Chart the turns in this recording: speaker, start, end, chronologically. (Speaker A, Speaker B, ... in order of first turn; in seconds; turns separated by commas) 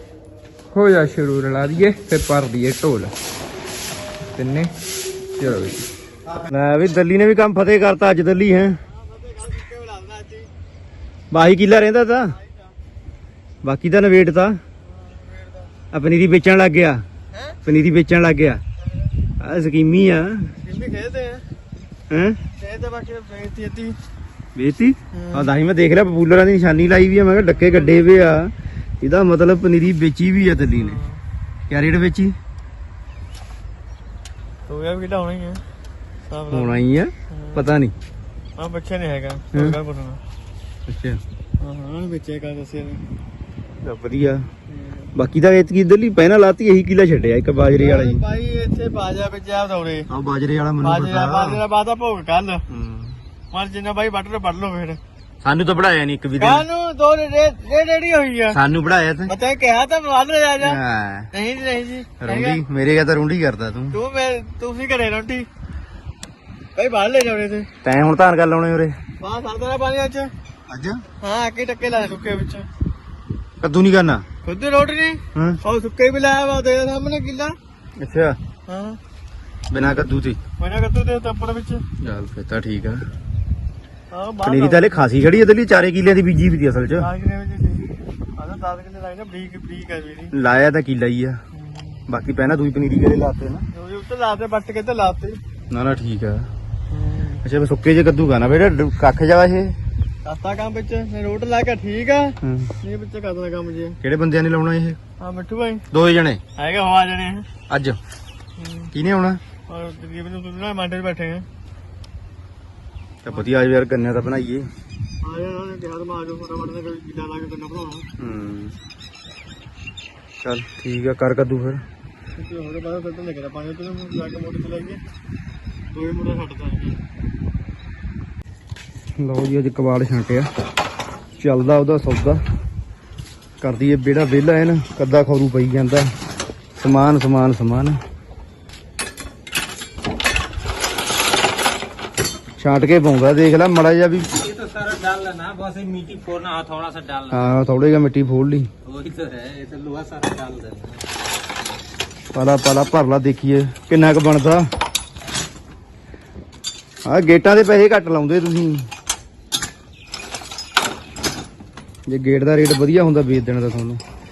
Speaker A: 0.7-3.1, Speaker A: 4.3-4.7, Speaker A: 5.4-5.9, Speaker B: 6.2-8.8, Speaker C: 8.9-10.5, Speaker B: 11.3-12.4, Speaker C: 12.3-12.7, Speaker B: 13.6-14.6, Speaker C: 14.8-15.7, Speaker B: 15.9-17.0, Speaker B: 17.6-18.6, Speaker B: 19.4-20.5, Speaker C: 20.6-21.5, Speaker B: 22.1-22.4, Speaker C: 22.6-24.0, Speaker B: 24.6-31.0, Speaker C: 25.1-25.5, Speaker C: 30.7-31.2, Speaker B: 31.7-32.4, Speaker C: 34.7-35.6, Speaker C: 36.3-36.8, Speaker B: 36.5-37.9, Speaker C: 37.3-37.7, Speaker C: 38.6-40.2, Speaker B: 39.5-39.8, Speaker B: 40.9-41.2, Speaker C: 41.6-43.0, Speaker B: 43.8-44.5, Speaker C: 44.7-45.1, Speaker B: 45.1-48.2, Speaker C: 47.7-50.1, Speaker B: 50.1-51.6, Speaker C: 50.8-52.6, Speaker B: 52.7-53.2, Speaker C: 53.5-55.0, Speaker B: 55.4-56.7, Speaker C: 56.4-58.6, Speaker B: 58.5-59.4, Speaker C: 59.3-60.8, Speaker B: 60.6-61.3, Speaker C: 61.3-62.6, Speaker B: 62.2-64.0, Speaker C: 63.9-65.5, Speaker C: 66.8-67.7, Speaker B: 67.8-69.0, Speaker C: 69.2-70.3, Speaker B: 70.7-71.0, Speaker C: 71.2-72.7, Speaker B: 73.6-74.3, Speaker C: 74.5-77.6, Speaker B: 78.0-78.4, Speaker C: 78.7-79.0, Speaker B: 79.7-80.4, Speaker C: 80.6-81.8, Speaker B: 82.0-83.1, Speaker C: 84.1-85.0, Speaker B: 84.4-87.1, Speaker C: 87.0-90.3, Speaker B: 90.3-91.4, Speaker C: 91.5-92.0, Speaker B: 92.1-93.7, Speaker C: 93.7-95.4, Speaker B: 95.7-96.5, Speaker C: 96.9-97.4, Speaker B: 97.4-99.8, Speaker C: 100.2-104.0, Speaker B: 102.4-102.7, Speaker B: 104.0-105.0, Speaker C: 105.2-105.8, Speaker B: 105.9-106.4, Speaker C: 106.6-107.5, Speaker B: 107.7-108.0, Speaker C: 108.6-108.9, Speaker B: 108.9-109.4, Speaker C: 109.7-111.5, Speaker B: 113.2-114.7, Speaker C: 115.2-118.1, Speaker B: 118.2-118.8, Speaker B: 120.4-121.8, Speaker C: 122.4-125.0, Speaker C: 125.9-127.0, Speaker B: 129.2-130.5, Speaker B: 131.4-132.4, Speaker B: 133.6-136.1, Speaker B: 136.8-138.0, Speaker B: 142.6-144.3, Speaker D: 144.3-147.5, Speaker B: 147.3-148.7, Speaker D: 148.8-151.0, Speaker B: 152.3-154.7, Speaker B: 157.1-158.9, Speaker B: 162.1-164.0